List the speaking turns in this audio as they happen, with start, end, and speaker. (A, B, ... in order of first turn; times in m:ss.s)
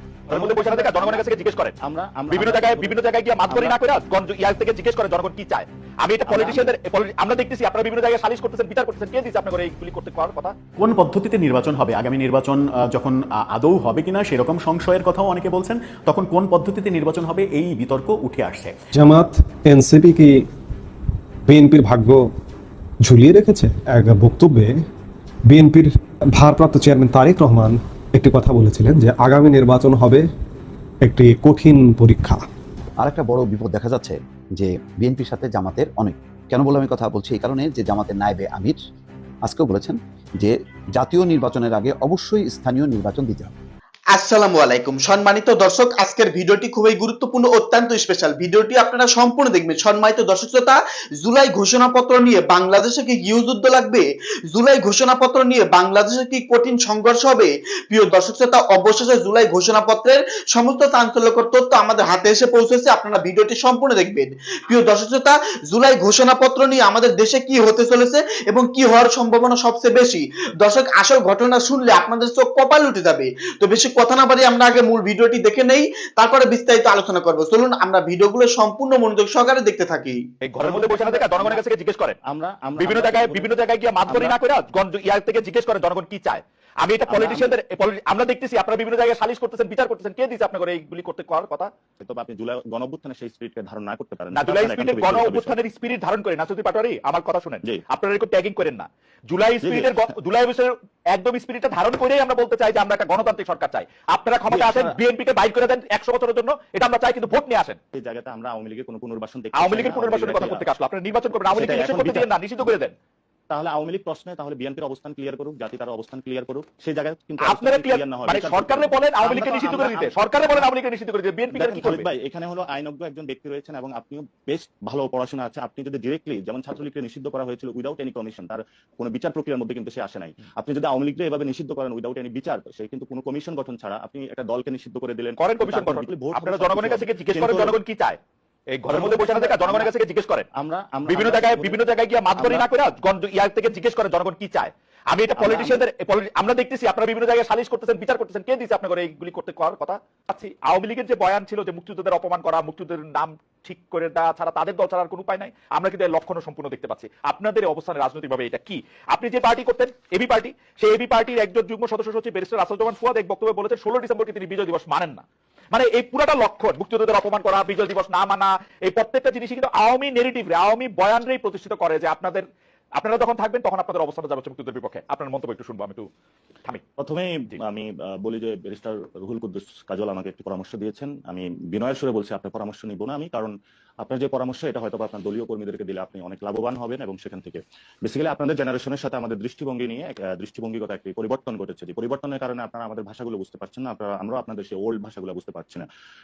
0:00.3-0:03.8 A
0:00.3-0:01.8 B
0:02.3-0:10.5 B
0:06.2-0:06.8 A
0:10.8-0:18.7 C
0:19.0-0:20.3 D
0:21.5-0:22.2 D
0:23.1-0:24.7 D
0:25.5-0:25.8 D
0:26.4-0:30.2 D
0:31.1-0:32.4 D
0:33.0-0:38.8 E
0:39.4-0:43.5 E
0:44.1-1:20.2 F
1:20.4-1:22.2 B
1:20.6-1:21.6 A
1:22.3-1:24.4 A
1:22.8-1:31.7 B
1:27.1-1:27.6 A
1:32.0-1:35.6 A
1:34.3-1:47.8 B
1:39.6-1:40.0 A
1:44.5-1:44.9 A
1:47.9-1:50.7 A
1:49.5-1:52.9 B
1:51.5-1:52.7 A
1:53.5-2:00.7 A
1:57.4-2:02.1 B
2:01.5-2:17.8 A
2:15.4-2:18.2 B
2:18.7-2:20.5 B
2:18.9-2:19.9 A
2:20.6-2:21.8 A
2:21.1-2:52.4 B
2:22.4-2:22.7 A
2:25.4-2:25.8 A
2:53.0-2:56.1 B
2:57.0-3:15.9 A